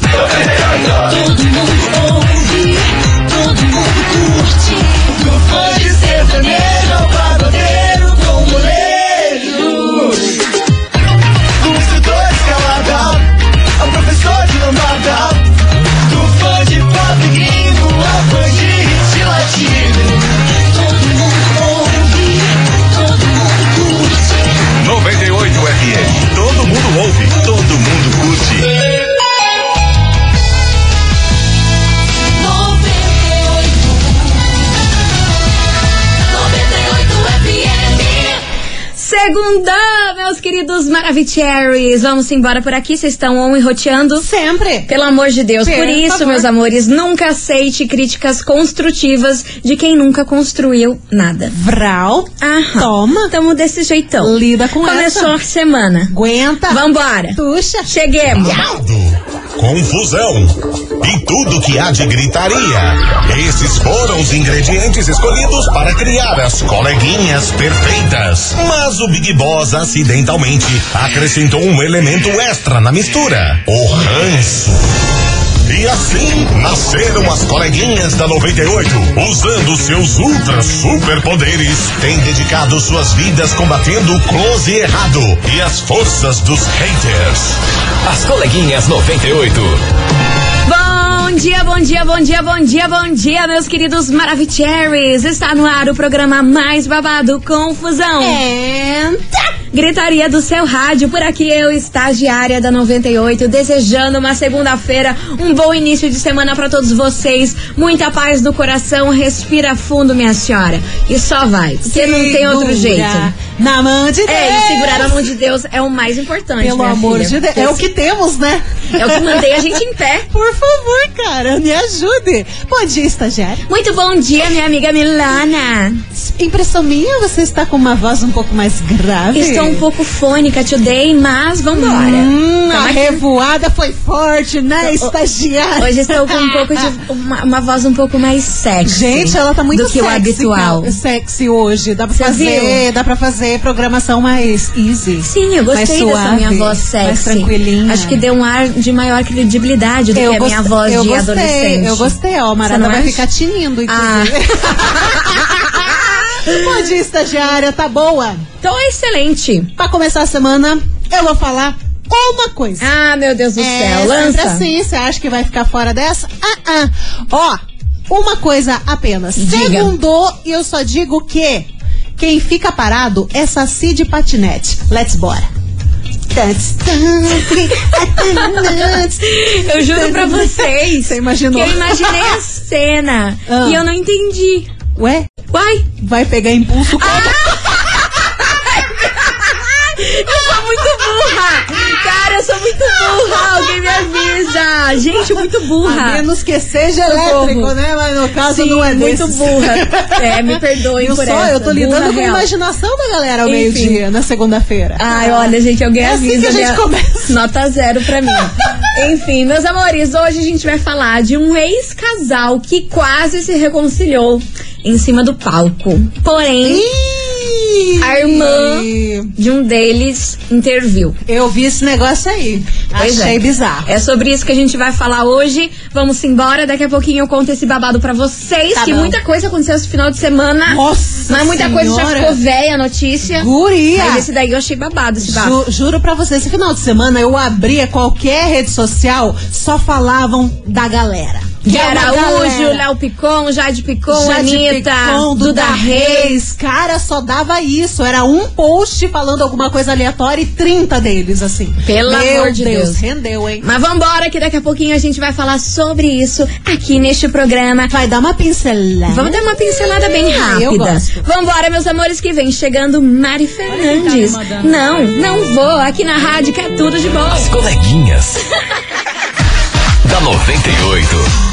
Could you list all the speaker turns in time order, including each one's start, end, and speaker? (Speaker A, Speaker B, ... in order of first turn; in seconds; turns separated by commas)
Speaker A: 0.3-10.3, Speaker A: 11.6-15.4, Speaker A: 16.1-28.6, Speaker A: 32.4-34.4, Speaker A: 36.3-38.4, Speaker B: 39.0-44.2, Speaker C: 44.2-44.9, Speaker B: 44.9-51.5, Speaker C: 45.6-46.5, Speaker C: 51.5-53.3, Speaker B: 52.4-56.1, Speaker C: 54.2-55.4, Speaker C: 56.1-57.9, Speaker B: 56.7-58.6, Speaker D: 58.4-74.8, Speaker D: 75.7-87.6, Speaker E: 88.0-89.8, Speaker B: 90.7-98.4, Speaker C: 98.2-99.5, Speaker B: 99.7-113.3, Speaker C: 111.8-115.3, Speaker B: 114.3-117.8, Speaker C: 116.6-119.8, Speaker B: 118.9-120.3, Speaker C: 120.3-123.6, Speaker B: 123.7-126.0, Speaker C: 126.1-129.8, Speaker B: 129.3-133.2, Speaker C: 131.7-136.9, Speaker B: 134.8-135.1, Speaker B: 135.8-140.9, Speaker C: 138.8-148.2, Speaker B: 142.2-142.8, Speaker B: 145.2-153.2, Speaker C: 150.1-158.4, Speaker B: 153.9-156.8, Speaker B: 158.6-159.7, Speaker C: 159.8-162.9, Speaker B: 162.8-164.7, Speaker C: 163.6-175.5, Speaker B: 169.3-169.9, Speaker C: 176.3-182.4, Speaker B: 178.2-184.7, Speaker C: 183.5-183.8, Speaker C: 184.9-185.3, Speaker B: 185.5-185.9, Speaker C: 186.0-187.5, Speaker B: 186.9-196.2, Speaker C: 193.1-193.8, Speaker C: 195.3-207.4, Speaker B: 197.0-197.7, Speaker B: 198.4-202.5, Speaker B: 203.4-204.0, Speaker B: 205.0-216.8, Speaker C: 208.2-208.9, Speaker C: 216.6-219.3, Speaker B: 218.0-221.2, Speaker C: 221.3-223.9, Speaker B: 222.9-235.6, Speaker C: 228.7-229.2, Speaker C: 230.7-232.4, Speaker C: 233.2-234.3, Speaker C: 235.2-242.8, Speaker B: 241.6-246.4, Speaker C: 244.1-253.6, Speaker B: 251.8-253.0, Speaker B: 253.6-257.9, Speaker C: 257.9-261.2, Speaker B: 259.1-267.5, Speaker C: 263.6-265.2, Speaker E: 267.3-268.4, Speaker E: 270.0-271.3